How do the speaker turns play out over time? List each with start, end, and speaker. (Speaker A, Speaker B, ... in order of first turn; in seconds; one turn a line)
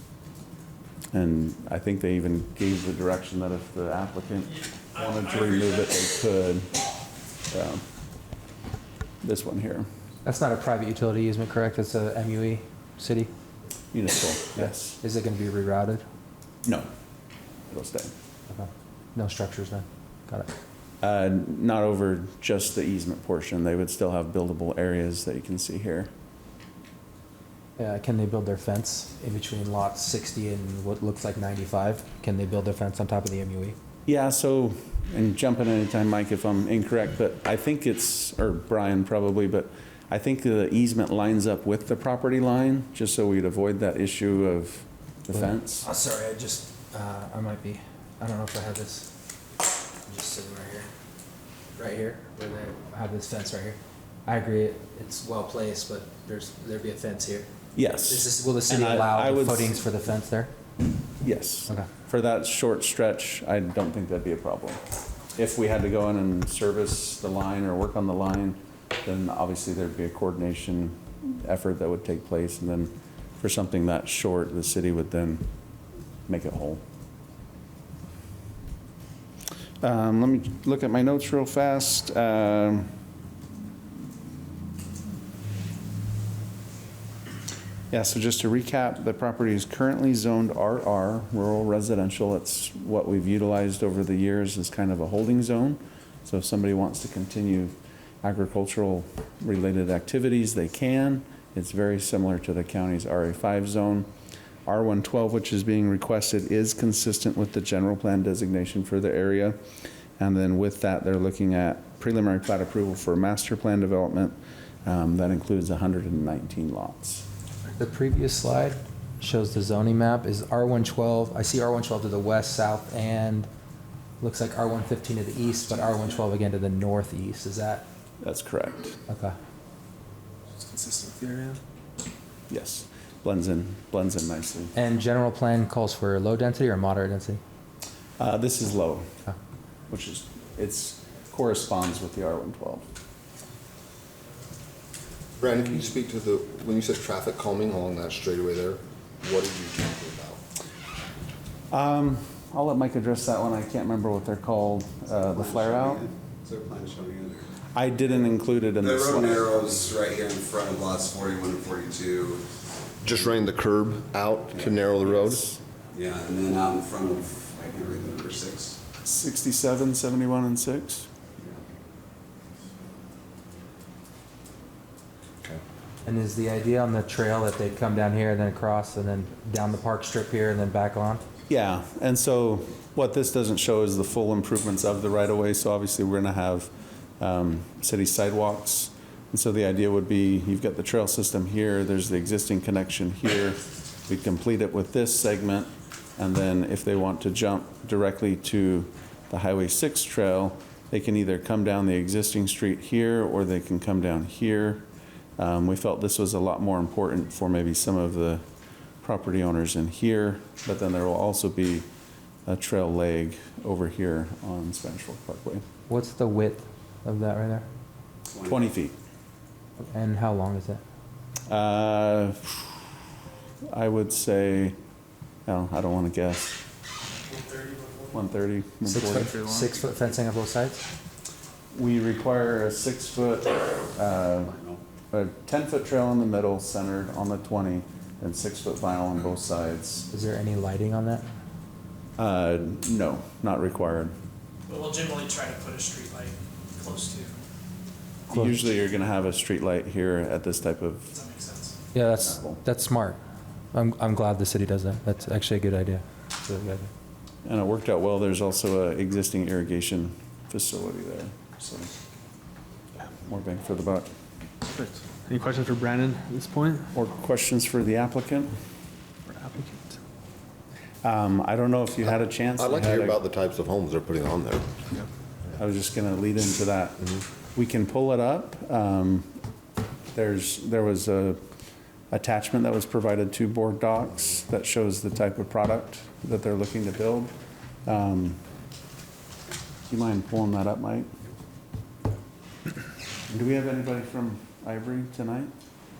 Speaker A: 1.1-6.7
Speaker B: 5.0-5.8
Speaker A: 7.5-7.8
Speaker A: 9.2-9.9
Speaker C: 10.2-13.3
Speaker A: 13.9-15.0
Speaker C: 14.6-16.1
Speaker A: 17.7-18.1
Speaker C: 18.5-20.5
Speaker A: 21.0-26.1
Speaker C: 27.8-33.8
Speaker A: 34.1-45.9
Speaker C: 45.4-49.1
Speaker C: 50.1-50.9
Speaker C: 51.8-57.5
Speaker A: 57.8-59.7
Speaker C: 58.0-60.5
Speaker A: 61.2-64.8
Speaker A: 65.3-75.5
Speaker A: 76.3-76.8
Speaker A: 79.8-82.9
Speaker A: 87.9-104.1
Speaker A: 104.7-109.6
Speaker A: 110.2-117.2
Speaker C: 117.8-123.5
Speaker C: 124.2-127.8
Speaker A: 128.2-128.9
Speaker C: 129.1-129.4
Speaker D: 130.6-131.6
Speaker A: 132.5-134.7
Speaker C: 134.8-137.4
Speaker A: 138.2-139.1
Speaker A: 139.9-142.8
Speaker E: 145.4-150.4
Speaker A: 151.7-156.0
Speaker F: 155.3-157.5
Speaker A: 157.7-159.6
Speaker F: 158.8-162.4
Speaker E: 163.0-165.5
Speaker A: 165.3-165.6
Speaker F: 165.9-168.8
Speaker A: 169.0-171.1
Speaker C: 176.1-181.2
Speaker A: 181.5-204.9
Speaker A: 205.4-208.4
Speaker A: 209.0-211.9
Speaker A: 212.5-215.6
Speaker C: 215.9-217.7
Speaker F: 218.3-218.6
Speaker A: 218.4-218.9
Speaker C: 219.9-220.8
Speaker A: 221.5-222.7
Speaker A: 223.7-224.8
Speaker A: 225.5-226.6
Speaker B: 227.2-228.2
Speaker A: 228.1-229.8
Speaker C: 228.9-230.8
Speaker A: 231.7-234.5
Speaker F: 234.1-234.8
Speaker A: 235.1-240.1
Speaker C: 240.1-241.3
Speaker A: 242.2-244.1
Speaker B: 244.7-247.4
Speaker A: 248.3-251.1
Speaker B: 251.1-251.8
Speaker C: 251.9-253.2
Speaker A: 252.2-252.6
Speaker C: 253.7-256.9
Speaker A: 257.4-261.9
Speaker A: 263.3-264.1
Speaker D: 264.8-266.9
Speaker A: 266.9-268.5
Speaker D: 269.3-269.8
Speaker A: 271.0-273.2
Speaker E: 272.4-274.8
Speaker A: 275.6-279.4
Speaker A: 280.1-281.4
Speaker A: 282.1-287.3
Speaker A: 287.9-288.4
Speaker A: 289.9-291.1
Speaker A: 293.3-295.5